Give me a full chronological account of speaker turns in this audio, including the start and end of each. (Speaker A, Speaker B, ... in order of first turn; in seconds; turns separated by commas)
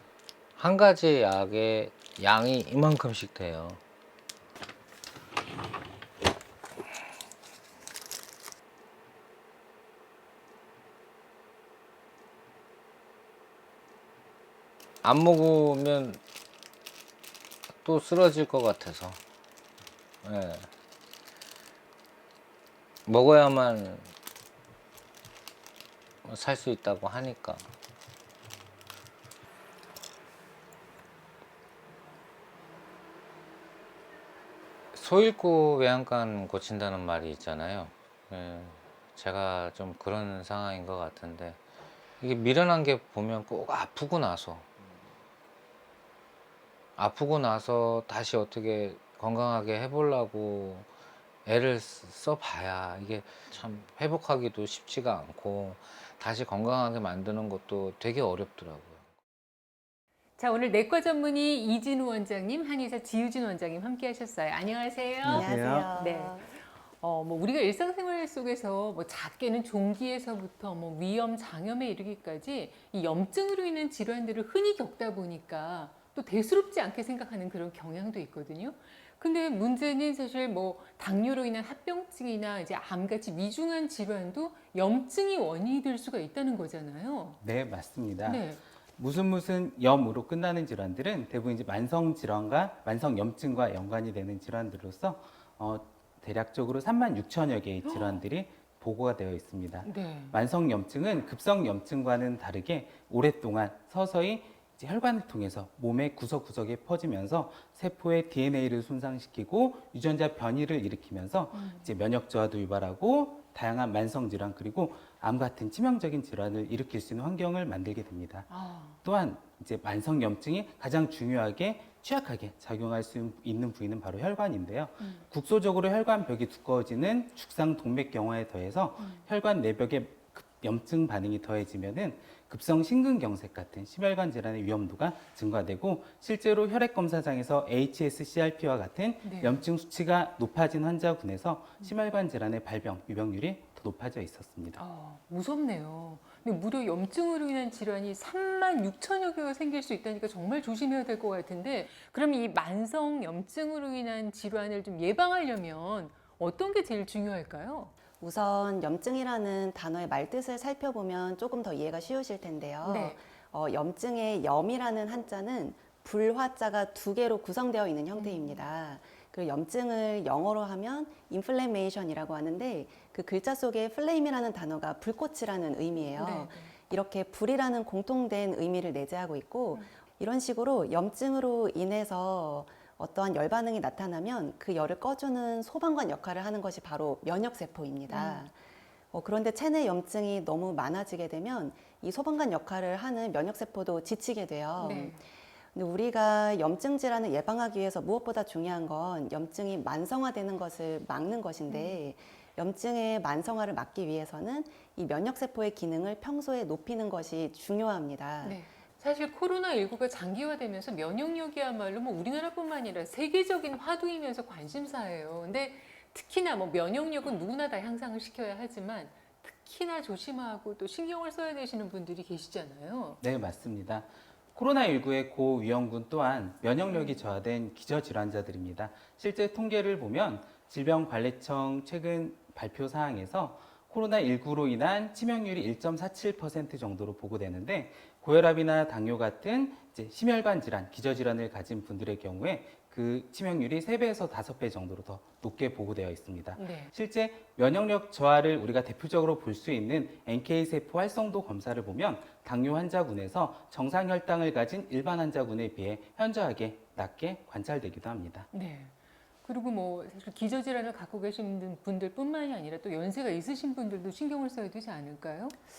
Speaker A: 0.6-3.8, Speaker A: 15.0-16.2, Speaker A: 17.8-19.2, Speaker A: 20.2-20.7, Speaker A: 23.1-24.1, Speaker A: 26.2-27.7, Speaker A: 34.9-41.6, Speaker A: 42.2-44.7, Speaker A: 47.0-50.9, Speaker A: 51.5-59.0, Speaker B: 60.4-66.4, Speaker C: 65.2-65.9, Speaker D: 65.2-66.5, Speaker B: 67.0-87.4, Speaker C: 87.4-118.5, Speaker B: 88.2-88.6, Speaker B: 97.8-98.2, Speaker B: 99.8-100.4, Speaker B: 111.5-112.0, Speaker B: 118.5-119.0, Speaker C: 119.0-144.8, Speaker B: 139.2-139.6, Speaker B: 144.8-157.9, Speaker D: 158.2-188.6, Speaker B: 162.8-163.2, Speaker B: 168.1-168.6, Speaker B: 176.2-176.7, Speaker B: 188.1-188.5, Speaker D: 189.1-195.2, Speaker B: 194.8-195.2, Speaker D: 195.7-208.6, Speaker B: 201.7-202.0, Speaker B: 208.4-223.2, Speaker C: 223.2-258.5, Speaker B: 226.9-227.2, Speaker B: 246.6-246.9, Speaker B: 258.5-265.6